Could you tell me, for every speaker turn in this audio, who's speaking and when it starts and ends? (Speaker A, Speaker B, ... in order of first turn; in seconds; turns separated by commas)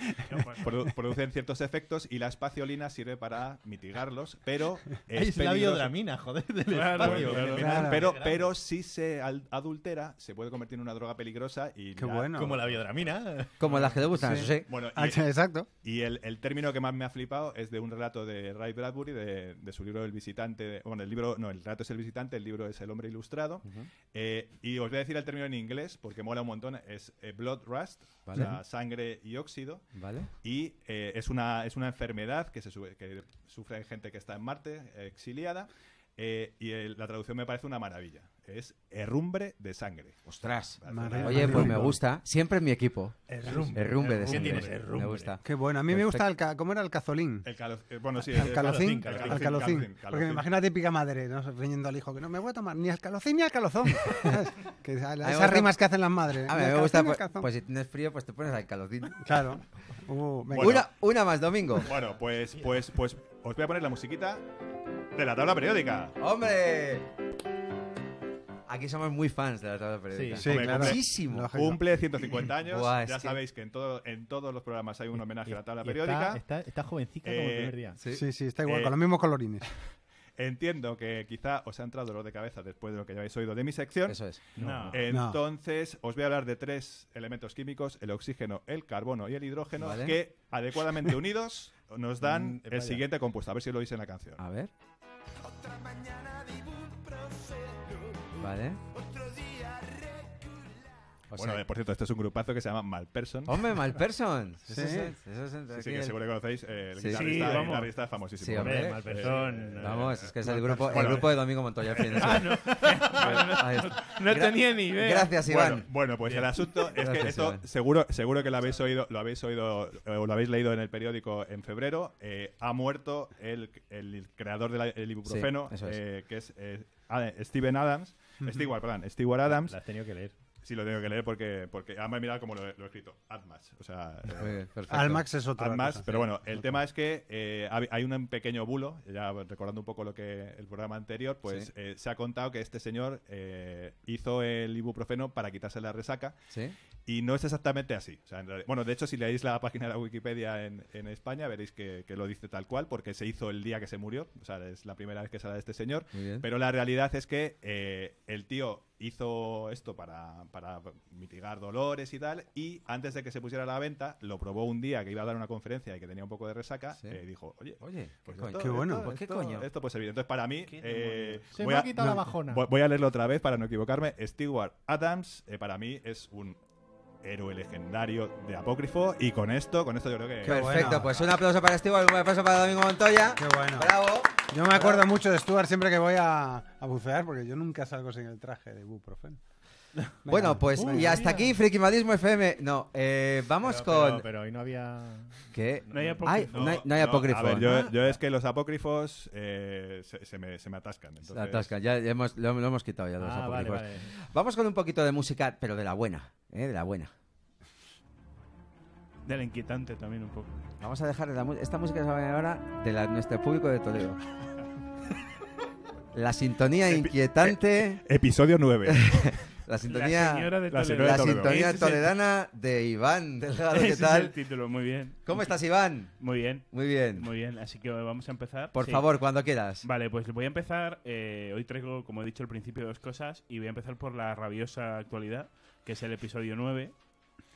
Speaker A: 0.3-0.8, Speaker B: 0.6-6.2, Speaker C: 5.1-8.5, Speaker A: 6.7-7.7, Speaker B: 6.9-13.0, Speaker D: 7.6-8.1, Speaker D: 12.0-12.6, Speaker C: 12.3-13.7, Speaker E: 13.6-14.7, Speaker B: 13.7-14.0, Speaker D: 14.2-15.7, Speaker B: 14.7-15.3, Speaker B: 15.8-41.9, Speaker E: 23.6-23.9, Speaker E: 28.3-28.6, Speaker E: 29.9-30.3, Speaker E: 40.3-46.2, Speaker D: 40.9-41.9, Speaker D: 43.3-43.8, Speaker C: 43.4-45.4, Speaker B: 44.3-44.6, Speaker D: 44.3-44.6, Speaker D: 45.4-47.5, Speaker B: 47.4-50.4, Speaker D: 48.3-57.5, Speaker C: 48.5-49.7, Speaker E: 55.2-55.8, Speaker E: 56.5-59.3, Speaker D: 59.2-60.8, Speaker B: 60.5-60.9, Speaker E: 60.6-61.9, Speaker B: 61.9-64.5, Speaker B: 65.1-66.2, Speaker E: 66.2-67.1, Speaker E: 68.7-71.5, Speaker C: 70.1-70.5, Speaker D: 70.4-71.8, Speaker B: 70.5-76.4, Speaker E: 72.7-73.4, Speaker C: 75.2-78.0, Speaker B: 77.2-77.8, Speaker E: 78.0-78.2, Speaker D: 78.1-79.7, Speaker B: 78.7-78.9, Speaker B: 80.4-94.4, Speaker E: 84.1-84.4, Speaker C: 84.6-85.0, Speaker A: 84.6-85.0, Speaker D: 85.1-85.4, Speaker E: 89.8-90.2, Speaker C: 92.2-93.0, Speaker E: 94.4-94.7, Speaker E: 98.3-98.8, Speaker E: 101.3-101.6, Speaker B: 101.3-103.7, Speaker E: 103.5-106.2, Speaker D: 104.7-105.1, Speaker B: 105.7-111.2, Speaker E: 107.0-107.8, Speaker A: 107.1-108.0, Speaker E: 108.4-115.9, Speaker C: 108.5-111.2, Speaker B: 112.0-112.3, Speaker A: 112.2-115.3, Speaker C: 112.4-113.4, Speaker B: 113.2-113.6, Speaker C: 114.5-115.0, Speaker B: 115.4-146.5, Speaker C: 116.2-116.9, Speaker E: 117.0-117.6, Speaker E: 125.2-126.0, Speaker D: 128.4-128.7, Speaker C: 129.5-130.4, Speaker E: 134.4-135.3, Speaker D: 134.9-136.5, Speaker B: 147.1-176.6, Speaker E: 156.1-156.4, Speaker E: 167.8-169.7, Speaker D: 168.6-169.1, Speaker A: 170.7-171.5, Speaker C: 171.5-172.7, Speaker D: 172.0-172.2, Speaker B: 177.2-181.3, Speaker E: 180.4-185.1, Speaker D: 180.4-181.1, Speaker D: 183.4-189.4, Speaker D: 190.2-191.2, Speaker E: 190.2-194.2, Speaker C: 190.7-191.5, Speaker C: 193.6-196.5, Speaker E: 195.5-197.8, Speaker A: 195.9-196.9, Speaker B: 196.5-201.7, Speaker C: 197.5-198.2, Speaker E: 201.3-207.1, Speaker C: 203.2-204.1, Speaker A: 209.2-210.5, Speaker E: 210.8-214.2, Speaker E: 216.1-218.0, Speaker B: 216.9-219.5, Speaker E: 218.9-224.4, Speaker A: 219.8-222.1, Speaker B: 220.7-221.8, Speaker A: 223.7-237.4, Speaker E: 225.2-227.3, Speaker E: 228.7-229.8